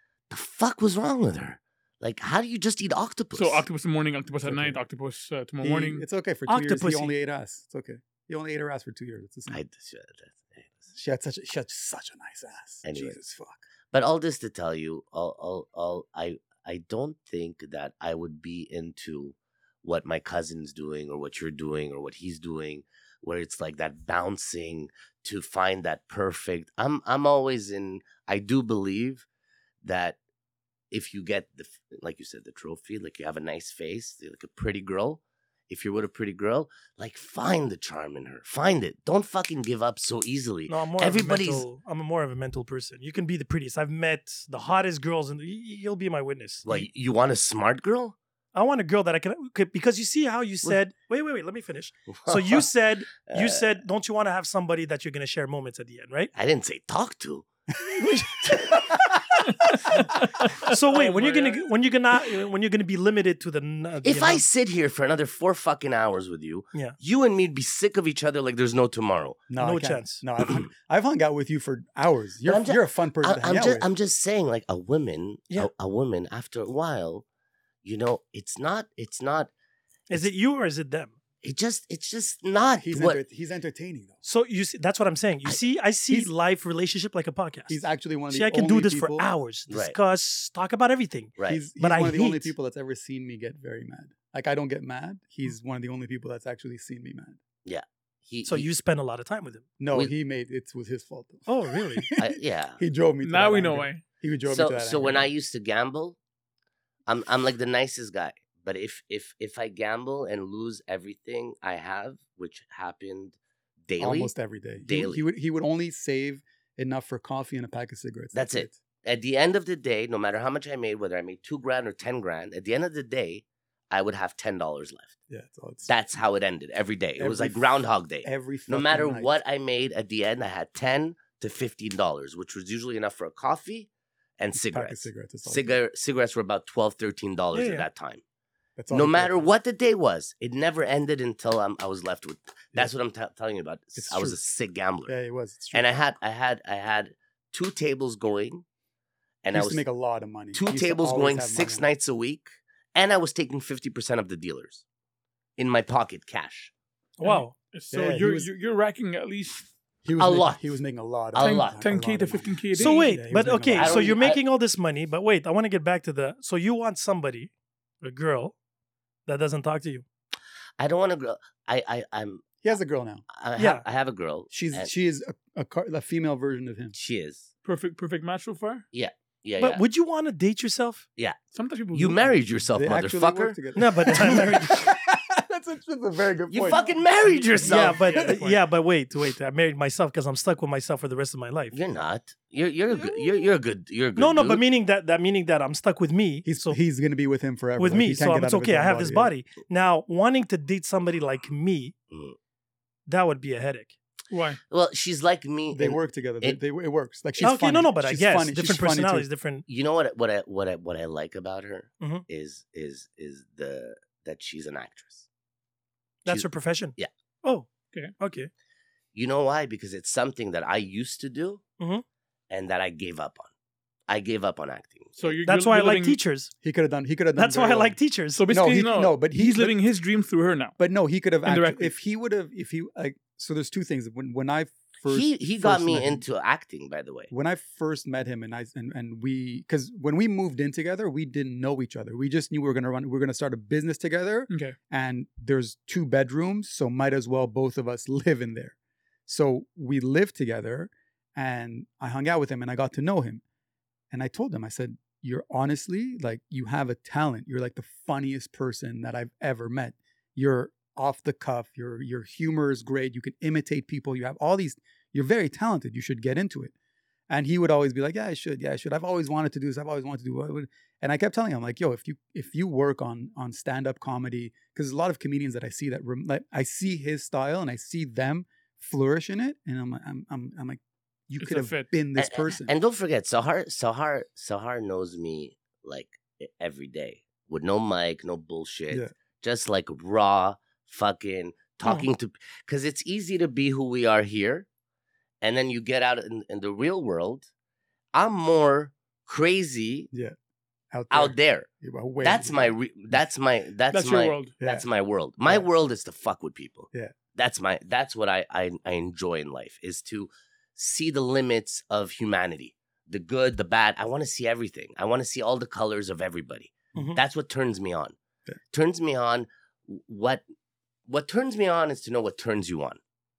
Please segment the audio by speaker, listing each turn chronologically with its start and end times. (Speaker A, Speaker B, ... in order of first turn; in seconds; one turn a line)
Speaker A: 0.3-3.7
Speaker B: 3.4-6.0
Speaker C: 4.4-4.8
Speaker C: 5.6-9.6
Speaker D: 6.5-7.1
Speaker A: 9.5-10.9
Speaker C: 10.9-13.6
Speaker A: 12.8-13.2
Speaker A: 13.9-29.3
Speaker A: 29.8-30.2
Speaker A: 30.9-41.7
Speaker D: 40.7-46.9
Speaker A: 46.6-48.1
Speaker D: 48.5-56.3
Speaker A: 52.1-52.7
Speaker A: 53.3-53.8
Speaker A: 56.4-57.5
Speaker C: 57.9-59.2
Speaker A: 58.4-58.7
Speaker B: 60.1-61.6
Speaker D: 60.6-64.4
Speaker A: 64.0-69.4
Speaker C: 69.5-73.9
Speaker D: 69.6-70.2
Speaker A: 72.5-77.2
Speaker A: 77.8-79.5
Speaker D: 80.1-81.2
Speaker A: 81.4-83.2
Speaker C: 82.8-84.2
Speaker D: 84.2-92.5
Speaker C: 87.7-89.3
Speaker A: 89.7-90.0
Speaker A: 91.4-91.7
Speaker C: 91.5-97.4
Speaker A: 97.7-98.7
Speaker D: 98.5-99.7
Speaker C: 99.8-105.3
Speaker D: 101.5-102.1
Speaker A: 102.2-102.8
Speaker B: 103.2-104.0
Speaker A: 104.5-106.2
Speaker A: 107.1-113.4
Speaker A: 113.9-114.3
Speaker C: 114.0-118.8
Speaker A: 114.8-115.2
Speaker A: 118.3-125.1
Speaker C: 125.3-125.9
Speaker A: 125.9-138.2
Speaker C: 127.2-127.7
Speaker C: 128.2-129.3
Speaker C: 134.6-135.8
Speaker D: 137.5-137.9
Speaker C: 138.8-139.5
Speaker A: 138.9-145.1
Speaker C: 144.0-144.4
Speaker C: 145.1-145.9
Speaker A: 145.7-148.7
Speaker A: 149.4-149.8
Speaker C: 149.5-151.9
Speaker A: 150.5-154.8
Speaker A: 155.6-156.7
Speaker B: 157.2-159.7
Speaker D: 157.2-157.5
Speaker C: 157.9-158.5
Speaker C: 160.1-164.2
Speaker A: 160.2-160.7
Speaker A: 161.3-161.9
Speaker B: 161.4-163.2
Speaker D: 162.8-167.5
Speaker A: 163.8-164.4
Speaker D: 168.0-168.6
Speaker D: 169.3-170.1
Speaker A: 170.8-172.5
Speaker C: 172.6-173.2
Speaker A: 173.3-174.9
Speaker D: 173.6-173.8
Speaker C: 174.5-176.9
Speaker A: 176.9-177.5
Speaker B: 177.7-178.8
Speaker A: 178.9-179.8
Speaker D: 179.6-181.1
Speaker B: 181.5-182.5
Speaker A: 181.9-183.6
Speaker C: 182.7-187.0
Speaker D: 183.8-184.9
Speaker A: 186.5-188.0
Speaker B: 187.3-188.6
Speaker D: 187.6-191.8
Speaker A: 191.7-194.6
Speaker D: 194.2-196.8
Speaker C: 196.4-199.3
Speaker D: 197.8-201.9
Speaker A: 202.1-202.4
Speaker D: 203.1-204.0
Speaker B: 204.3-204.6
Speaker A: 204.7-206.6
Speaker C: 205.7-209.3
Speaker D: 207.4-209.7
Speaker A: 209.7-215.3
Speaker D: 216.2-217.7
Speaker A: 216.3-217.1
Speaker D: 218.2-218.5
Speaker A: 219.1-221.6
Speaker D: 221.8-222.0
Speaker A: 222.5-223.5
Speaker A: 224.1-225.3
Speaker B: 225.2-226.2
Speaker D: 225.4-226.5
Speaker C: 226.6-229.8
Speaker D: 227.4-228.4
Speaker B: 228.3-230.8
Speaker C: 230.8-236.2
Speaker B: 231.4-231.9
Speaker A: 235.1-237.3
Speaker C: 237.3-248.8
Speaker B: 244.5-244.8
Speaker C: 249.3-253.4
Speaker C: 254.1-266.7
Speaker C: 267.3-282.7
Speaker B: 281.4-281.9
Speaker A: 282.2-294.7
Speaker A: 295.4-297.5
Speaker A: 298.1-300.1
Speaker C: 300.9-303.2
Speaker A: 301.1-301.7
Speaker A: 302.2-318.2
Speaker B: 303.9-304.5
Speaker C: 304.6-304.9
Speaker D: 316.9-317.2
Speaker A: 318.7-320.4
Speaker A: 321.1-323.0